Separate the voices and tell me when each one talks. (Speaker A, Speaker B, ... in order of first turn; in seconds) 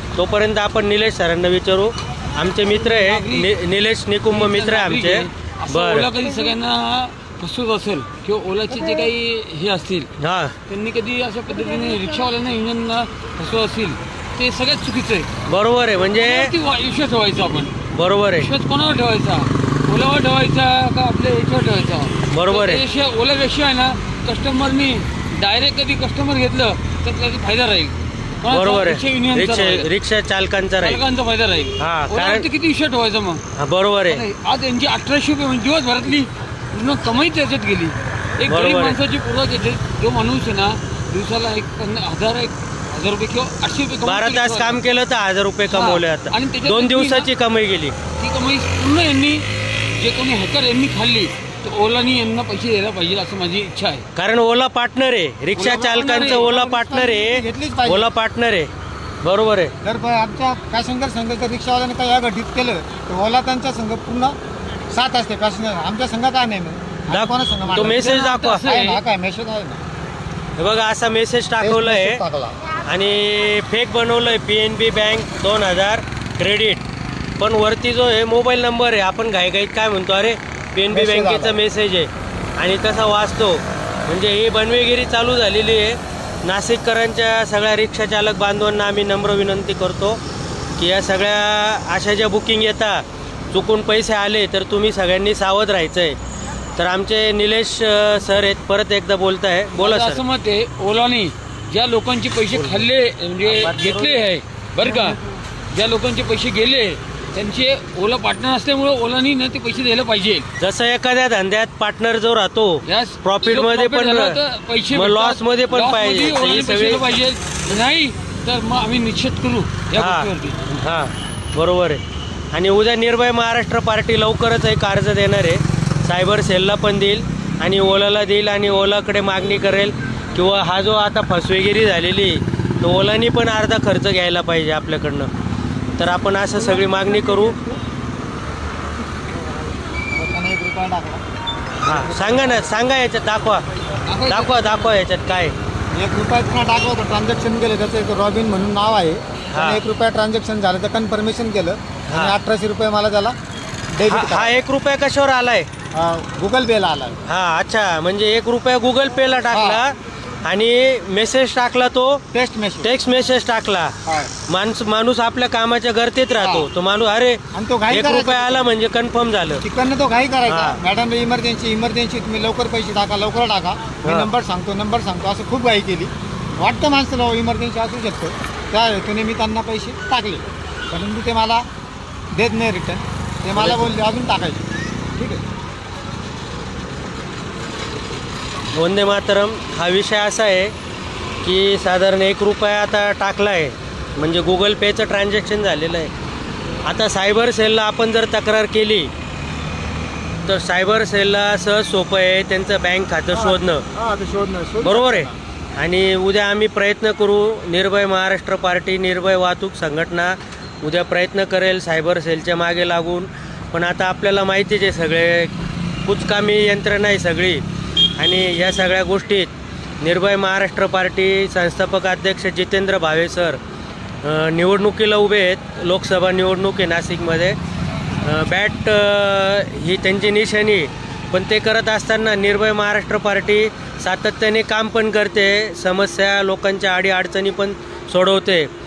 Speaker A: 0.1-6.1, 10.2-10.5, 15.4-16.5, 17.9-18.5, 22.3-22.8, 28.5-31.0, 31.8-32.5, 33.5-34.2, 38.5-39.0, 44.0-48.0, 54.1-58.7, 59.2-59.7, 67.1-68.7, 70.6-72.2, 72.8-76.8, 77.4-90.2, 90.8-96.2, 96.8-100.2, 102.5-102.9, 103.4-104.3, 110.6-114.4, 114.9-117.0, 119.9-122.0, 122.5-135.3, 136.0-137.6, 141.8-143.6, 144.2-145.5, 149.5-149.8, 152.1-152.3, 154.1-155.7, 157.2-162.2, 162.8-163.9, 164.5-169.6, 170.4-170.8, 174.0-174.3, 183.6-183.9, 188.7-190.7, 191.4-196.1, 196.8-199.1, 200.4-203.8, 204.8-215.5, 216.1-217.6, 218.2-223.6, 224.2-227.6, 228.2-238.7
Speaker B: 2.6-3.5, 4.3-10.1, 10.7-15.3, 16.2-17.8, 18.4-29.9, 30.8-33.4, 34.1-44.8, 45.7-47.3, 48.2-54.0, 55.5-56.5, 67.7-69.0, 99.7-105.2, 105.7-110.5, 112.8-120.6, 144.1-144.9
Speaker C: 55.6-58.1, 59.8-64.3, 64.9-69.8, 71.6-72.6, 80.9-81.6, 136.5-137.8, 140.1-141.2, 141.8-142.7, 145.9-153.3, 153.9-154.6, 155.9-157.2, 159.5-159.8, 162.3-162.9, 164.0-164.3, 166.3-166.7, 167.5-168.7, 169.6-181.6, 182.3-185.4, 203.3-205.3